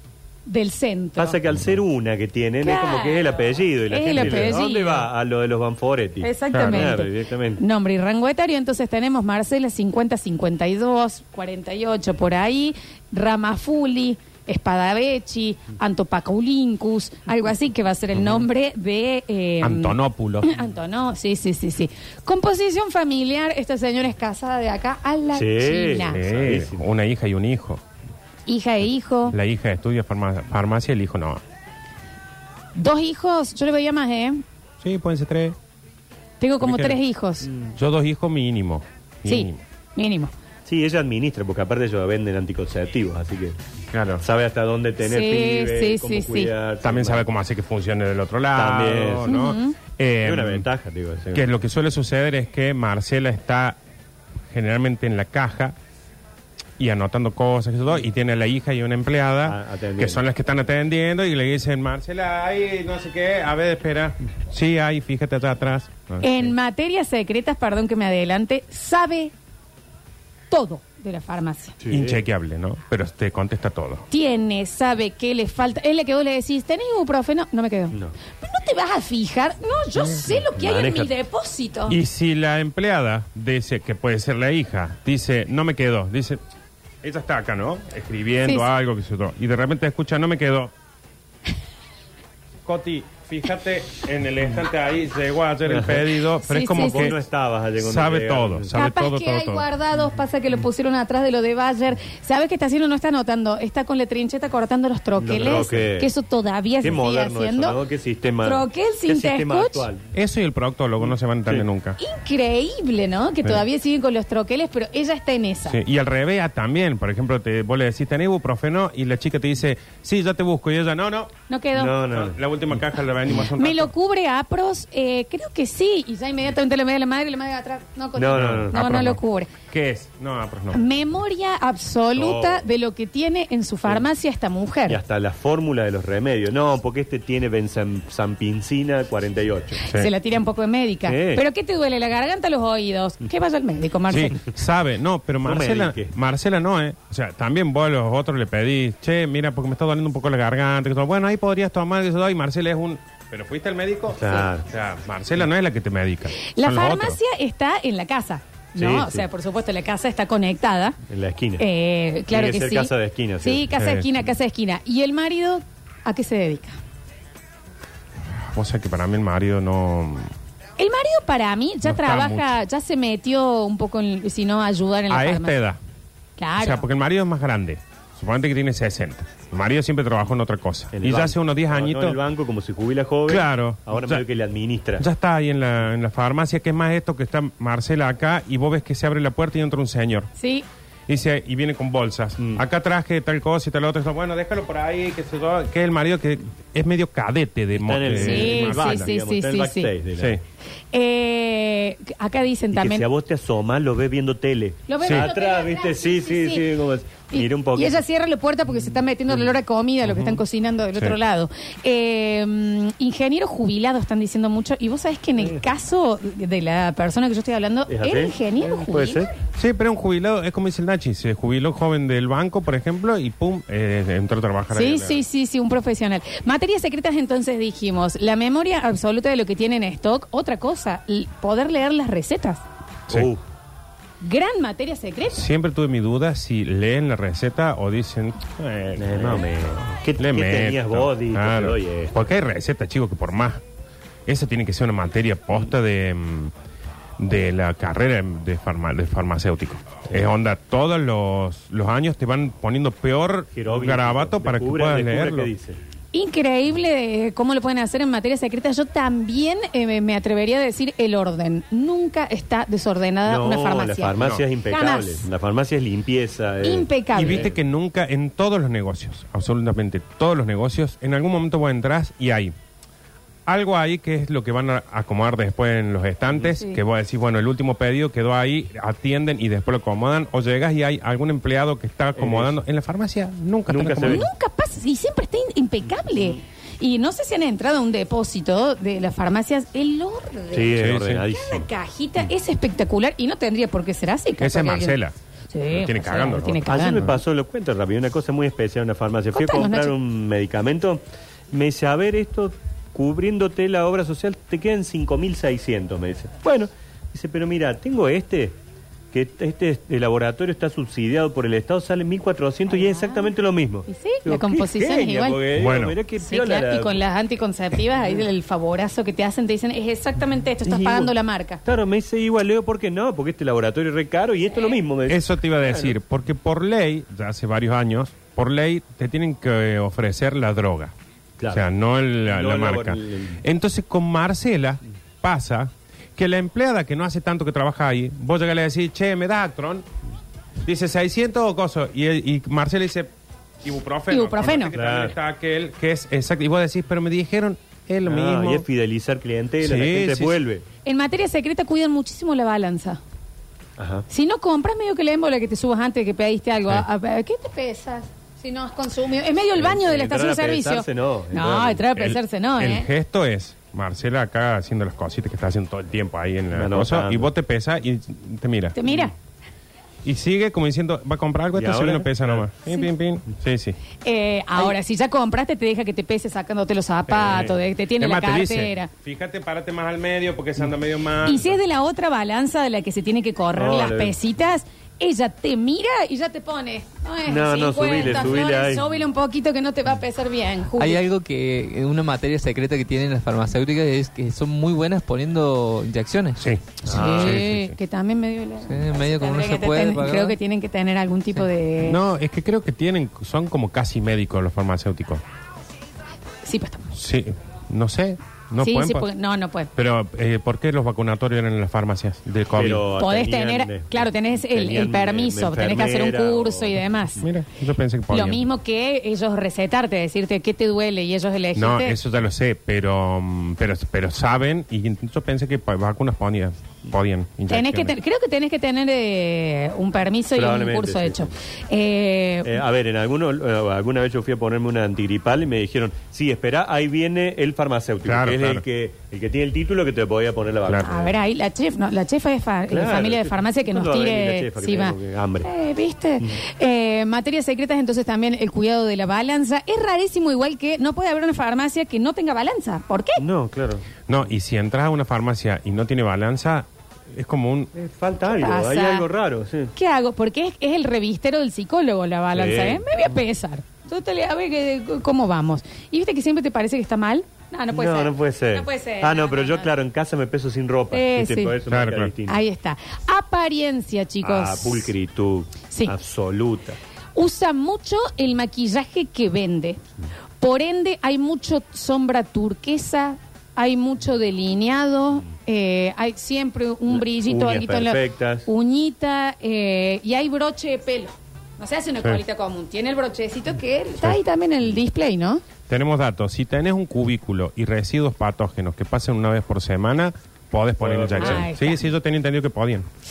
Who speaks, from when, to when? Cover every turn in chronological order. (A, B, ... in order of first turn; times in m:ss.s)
0:00.4-0:01.4 A
0:01.2-0:07.6 B
0:02.6-0:03.4 A
0:03.9-0:05.1 A
0:04.2-0:04.5 C
0:06.2-0:26.2 A
0:06.5-0:06.9 C
0:19.6-0:20.5 C
0:25.3-0:26.8 B
0:26.1-0:27.8 C
0:28.5-0:29.4 A
0:29.3-0:31.4 C
0:32.7-0:34.4 A
0:34.8-0:35.6 C
0:36.4-0:37.5 A
0:36.6-0:37.0 C
0:37.8-0:39.6 C
0:39.2-0:40.3 A
0:40.7-0:43.6 B
0:43.9-0:44.2 C
0:44.2-0:47.2 B
0:45.0-0:46.5 A
0:46.8-0:50.6 C
0:48.5-0:49.4 B
0:49.3-0:49.8 A
0:50.2-0:51.5 B
0:51.3-0:53.8 C
0:54.5-0:55.8 C
0:56.8-1:06.5 C
0:59.4-1:00.2 B
1:06.2-1:09.3 A
1:10.5-1:11.8 A
1:11.8-1:12.2 B
1:11.9-1:14.0 C
1:14.1-1:22.0 A
1:20.3-1:21.1 B
1:21.9-1:26.4 C
1:27.0-1:30.7 C
1:32.6-1:37.2 C
1:35.7-1:36.0 B
1:36.4-1:37.1 A
1:36.7-1:38.7 B
1:37.8-1:39.6 C
1:38.7-1:47.8 A
1:45.2-1:46.1 B
1:46.8-1:50.1 B
1:48.4-1:49.9 A
1:50.1-1:52.0 C
1:52.0-1:55.8 A
1:55.6-2:01.3 C
2:01.5-2:02.0 A
2:01.7-2:02.4 B
2:02.0-2:03.9 C
2:03.6-2:09.5 A
2:08.2-2:09.1 B
2:08.3-2:09.2 C
2:09.7-2:10.8 C
2:10.7-2:15.0 A
2:12.2-2:12.6 B
2:14.9-2:19.8 B
2:19.8-2:24.4 A
2:19.8-2:20.1 C
2:21.0-2:21.4 B
2:24.1-2:37.2 C
2:25.4-2:26.1 B
2:34.1-2:34.7 B
2:36.4-2:41.0 A
2:38.8-2:39.2 B
2:41.1-2:41.6 B
2:41.6-2:42.9 A
2:42.3-2:43.6 B
2:43.4-2:46.8 A
2:43.8-2:44.1 C
2:48.4-2:50.3 C
2:50.8-2:55.6 A
2:51.8-2:52.5 C
2:55.1-2:55.8 C
2:56.4-2:56.8 A
2:56.6-3:02.2 C
3:00.9-3:05.0 B
3:03.3-3:04.2 C
3:05.0-3:10.3 C
3:10.4-3:10.6 A
3:11.1-3:19.1 C
3:12.4-3:12.6 B
3:17.7-3:20.4 B
3:18.1-3:19.9 A
3:20.2-3:20.4 C
3:20.9-3:23.0 A
3:22.7-3:28.0 B
3:24.9-3:26.7 A
3:25.0-3:25.3 C
3:27.3-3:39.3 A
3:35.4-3:35.6 B
3:37.9-3:39.3 B
3:39.6-3:45.2 C
3:44.7-3:52.6 A
3:53.1-3:53.4 B
3:54.2-3:55.4 A
3:55.3-3:59.5 C
3:59.0-4:02.2 B
4:00.2-4:03.6 C
4:04.3-4:06.5 C
4:07.2-4:15.5 C
4:13.5-4:15.8 B
4:16.1-4:25.3 A
4:23.2-4:27.5 B
4:26.6-4:27.4 A
4:27.1-4:32.5 C
4:33.4-4:44.2 C
4:42.2-4:42.6 B
4:43.7-4:44.3 B
4:44.0-4:55.0 A
4:50.5-4:51.7 B
4:50.8-4:51.2 C
4:54.4-4:55.1 C
4:55.5-4:57.1 A
4:55.7-4:57.2 C
4:56.7-5:08.6 B
4:59.3-4:59.9 A
5:09.1-5:17.0 B
5:12.7-5:13.3 A
5:13.9-5:15.4 A
5:15.5-5:16.0 C
5:16.2-5:21.6 A
5:20.6-5:21.1 B
5:21.6-5:25.9 B
5:25.1-5:30.9 C
5:31.4-5:31.6 B
5:31.5-5:39.8 C
5:32.2-5:33.4 B
5:40.6-5:43.1 C
5:43.6-5:48.6 C
5:44.1-5:44.7 A
5:44.7-5:45.1 B
5:48.0-5:50.6 B
5:49.6-5:50.4 C
5:50.8-5:53.0 A
5:53.8-5:54.0 B
5:54.1-6:02.9 A
5:59.6-6:01.9 B
6:02.0-6:08.8 C
6:06.5-6:07.3 B
6:08.7-6:09.1 A
6:10.0-6:13.8 C
6:11.5-6:12.4 B
6:14.0-6:18.9 A
6:17.1-6:21.6 C
6:17.2-6:17.5 B
6:21.2-6:31.0 A
6:23.5-6:24.2 B
6:27.2-6:28.9 B
6:30.8-6:36.4 D
6:36.4-6:37.7 C
6:36.8-6:42.0 A
6:36.8-6:37.5 B
6:38.6-6:40.4 D
6:41.8-6:45.2 C
6:46.4-6:46.9 A
6:46.9-6:49.1 C
6:48.6-6:49.7 A
6:49.7-6:52.8 C
6:52.5-6:56.8 B
6:52.8-6:57.2 A
6:57.2-6:58.4 C
6:58.1-7:02.0 A
7:01.5-7:07.9 C
7:07.5-7:12.6 A
7:10.3-7:11.3 B
7:12.4-7:21.1 B
7:18.0-7:18.6 C
7:20.6-7:21.0 C
7:20.8-7:33.2 A
7:22.7-7:25.5 B
7:33.2-7:33.8 B
7:34.1-7:37.7 C
7:37.7-7:39.7 B
7:38.3-7:39.0 A
7:39.7-7:49.7 A
7:42.3-7:42.8 B
7:47.7-7:52.4 B
7:50.9-7:51.5 A
7:51.6-7:52.1 C
7:52.2-7:54.9 A
7:54.2-7:56.8 B
7:57.2-7:59.8 A
8:00.4-8:15.4 A
8:06.9-8:08.5 B
8:15.7-8:22.9 C
8:20.8-8:21.5 B
8:21.2-8:21.9 A